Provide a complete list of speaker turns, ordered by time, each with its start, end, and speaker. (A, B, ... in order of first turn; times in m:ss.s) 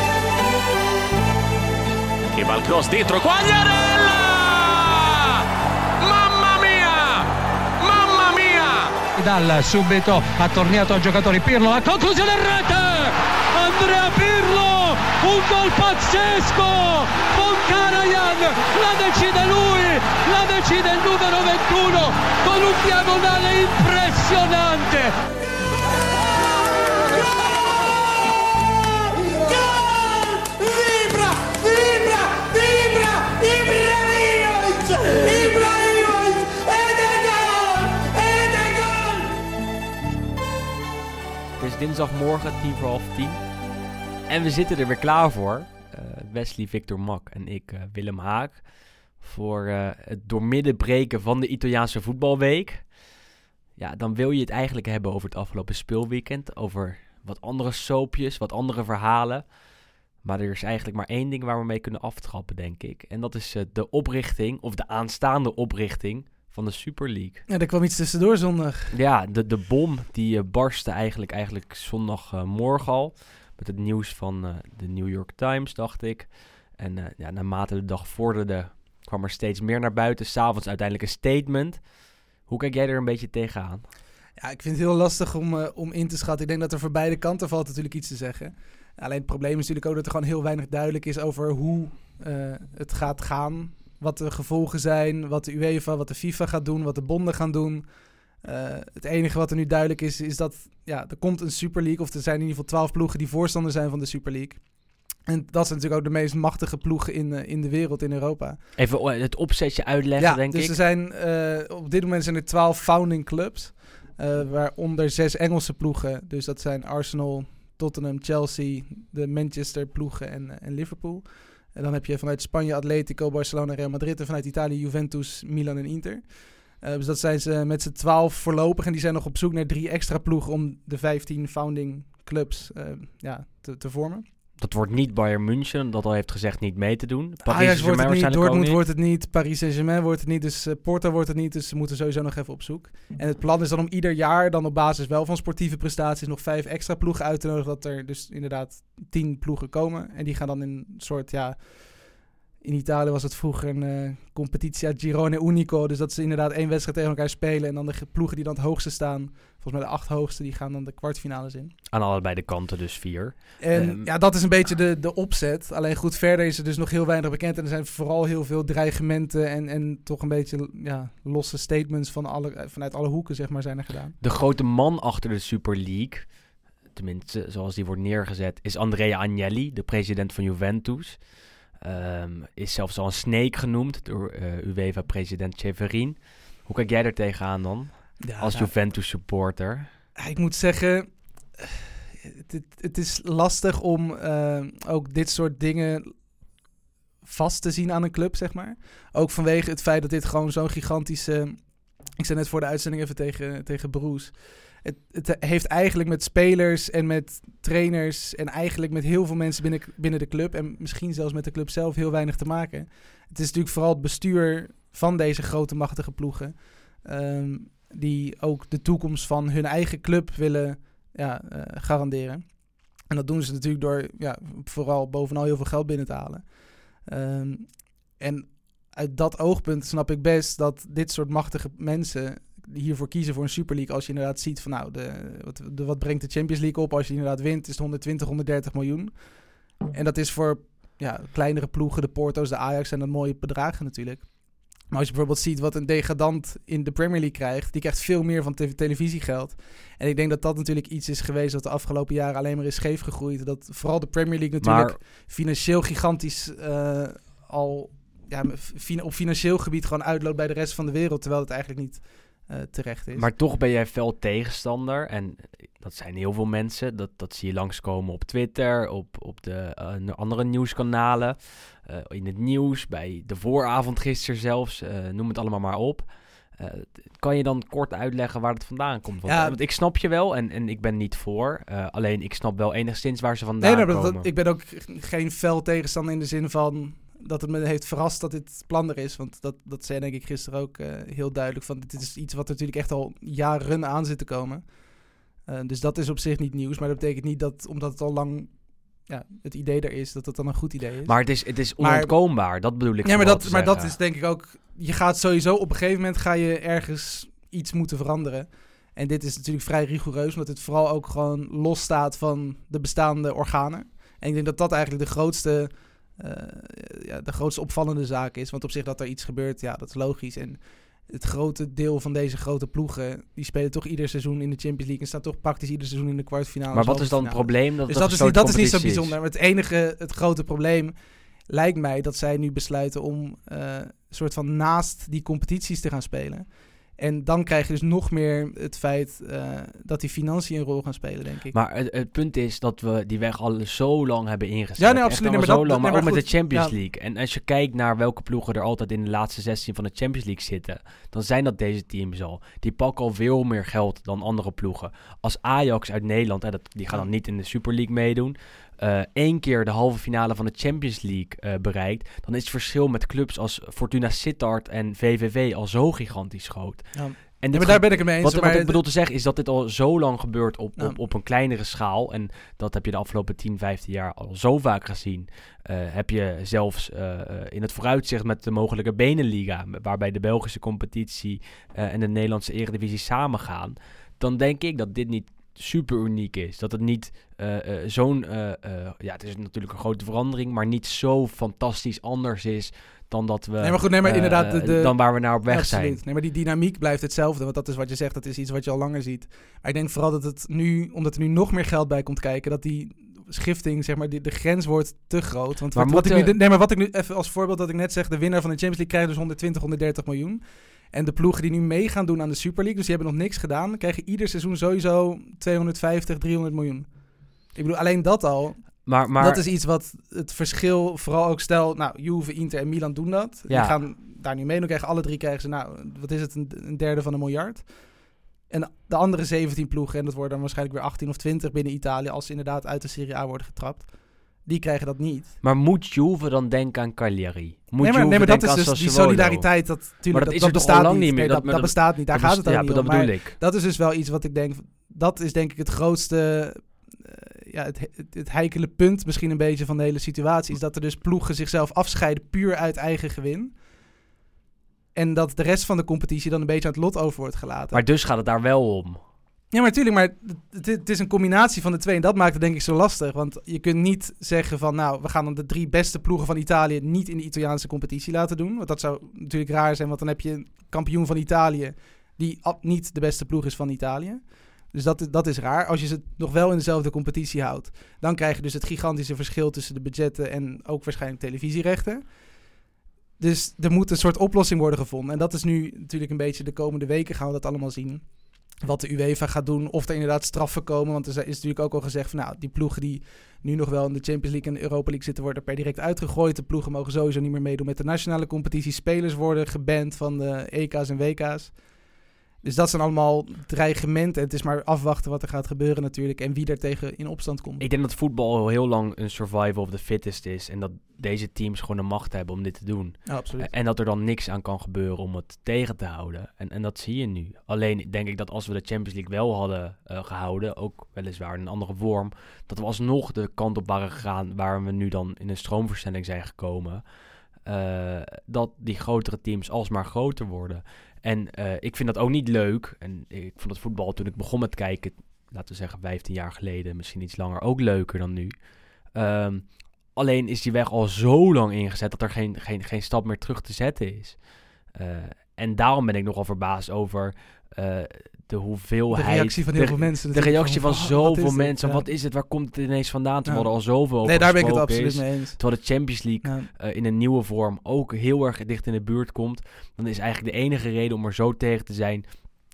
0:02.3-0:05.4 A
0:06.0-0:07.3 A
0:07.8-0:11.6 A
0:09.2-0:25.2 B
0:30.6-0:38.1 B
0:41.6-0:43.6 C
0:44.3-0:53.0 C
0:53.8-0:59.6 C
1:00.2-1:07.5 C
1:07.5-1:08.9 D
1:08.9-1:21.9 C
1:22.4-1:23.9 C
1:24.4-1:48.6 D
1:48.8-1:50.8 C
1:50.2-2:14.2 D
2:14.6-2:18.8 C
2:17.4-2:41.7 D
2:41.9-2:44.1 C
2:43.6-2:54.2 D
2:54.2-2:56.4 C
2:56.9-3:09.9 C
3:08.2-3:08.8 D
3:10.2-3:16.3 D
3:17.2-4:23.3 D
4:14.6-4:15.0 C
4:23.1-4:44.3 C
4:39.3-4:39.6 D
4:43.6-5:41.6 D
5:01.0-5:03.9 C
5:26.7-5:29.1 C
5:41.5-6:36.0 C
5:44.8-5:46.8 D
6:06.9-6:08.8 D
6:33.6-7:15.4 D
6:45.8-6:46.3 C
6:58.8-6:59.4 C
7:03.5-7:03.8 C
7:15.4-7:23.4 C
7:17.8-7:33.6 D
7:34.9-7:37.8 D
7:37.7-7:39.0 C
7:39.5-8:02.4 D
8:03.2-8:21.9 D
8:22.4-8:27.7 D
8:27.6-8:46.8 C
8:33.1-8:33.5 D
8:47.4-8:58.4 C
8:58.9-9:22.0 C
9:08.9-9:11.9 D
9:13.3-9:15.4 D
9:16.2-9:16.5 D